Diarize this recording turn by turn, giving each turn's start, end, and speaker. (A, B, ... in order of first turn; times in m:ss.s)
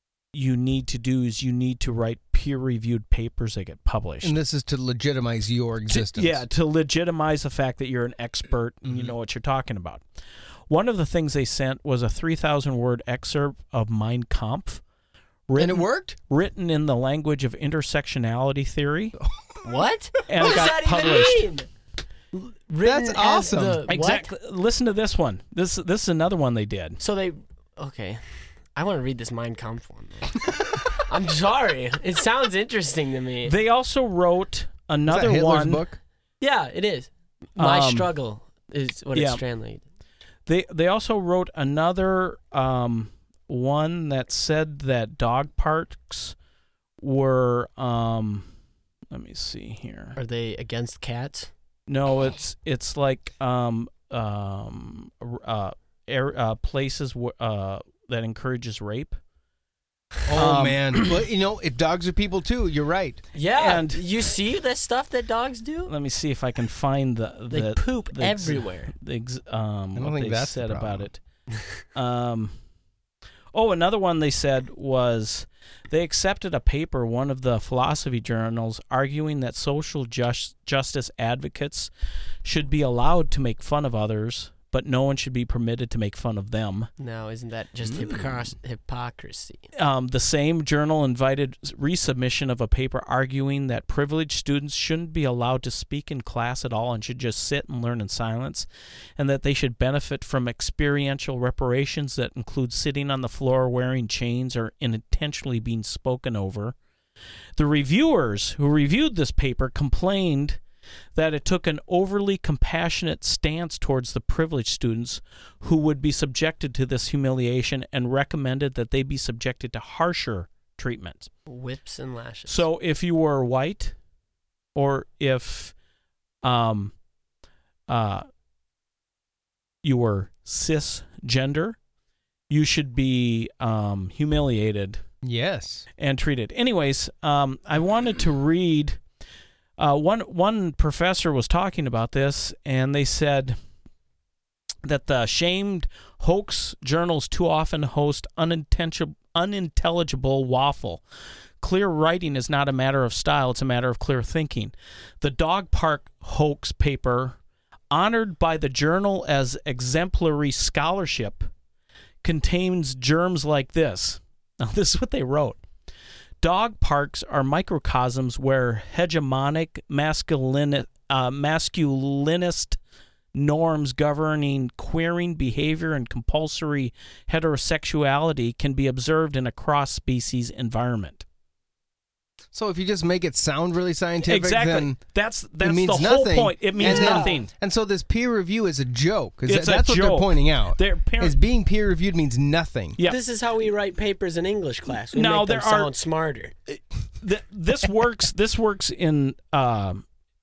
0:00.3-0:04.4 A
0:04.2-0:06.4 B
0:05.9-0:10.0 A
0:08.8-0:09.1 B
0:10.7-0:14.8 A
0:15.5-0:19.2 A
0:15.6-0:16.2 B
0:19.6-0:21.7 C
0:20.3-0:21.5 A
0:22.3-0:24.3 C
0:22.8-0:23.8 B
0:23.9-0:27.0 A
0:27.0-0:30.4 C
0:30.9-0:33.5 C
0:33.4-0:35.8 A
0:35.1-0:36.0 B
0:36.4-0:39.8 C
0:37.6-0:38.1 A
0:39.1-0:39.4 A
0:40.5-0:46.4 A
0:47.0-0:48.5 A
0:49.1-0:50.2 A
0:50.2-0:51.5 C
0:51.9-0:59.2 A
1:00.3-1:03.2 B
1:00.3-1:01.1 A
1:03.4-1:05.9 C
1:03.5-1:04.0 A
1:05.9-1:11.2 A
1:07.5-1:08.9 C
1:10.0-1:11.1 B
1:12.0-1:12.5 A
1:13.5-1:21.9 A
1:22.4-1:26.9 A
1:27.0-1:29.7 C
1:29.7-1:38.7 A
1:39.2-1:46.8 A
1:47.6-1:50.6 A
1:51.1-2:01.3 A
2:01.5-2:02.7 C
2:02.5-2:03.9 A
2:04.7-2:05.7 A
2:06.4-2:06.9 A
2:07.9-2:08.3 A
2:09.8-2:11.8 A
2:12.5-2:15.0 A
2:15.2-2:15.9 B
2:16.0-2:19.0 A
2:19.8-2:23.6 A
2:24.8-2:31.0 A
2:31.6-2:37.4 A
2:37.9-2:41.5 A
2:42.2-2:45.6 A
2:46.4-2:52.8 A
2:53.3-3:01.2 A
3:02.5-3:05.0 B
3:04.2-3:07.5 A
3:05.6-3:13.0 B
3:06.8-3:07.4 C
3:09.5-3:11.4 A
3:13.0-3:16.5 C
3:15.1-3:15.9 A
3:16.7-3:20.0 A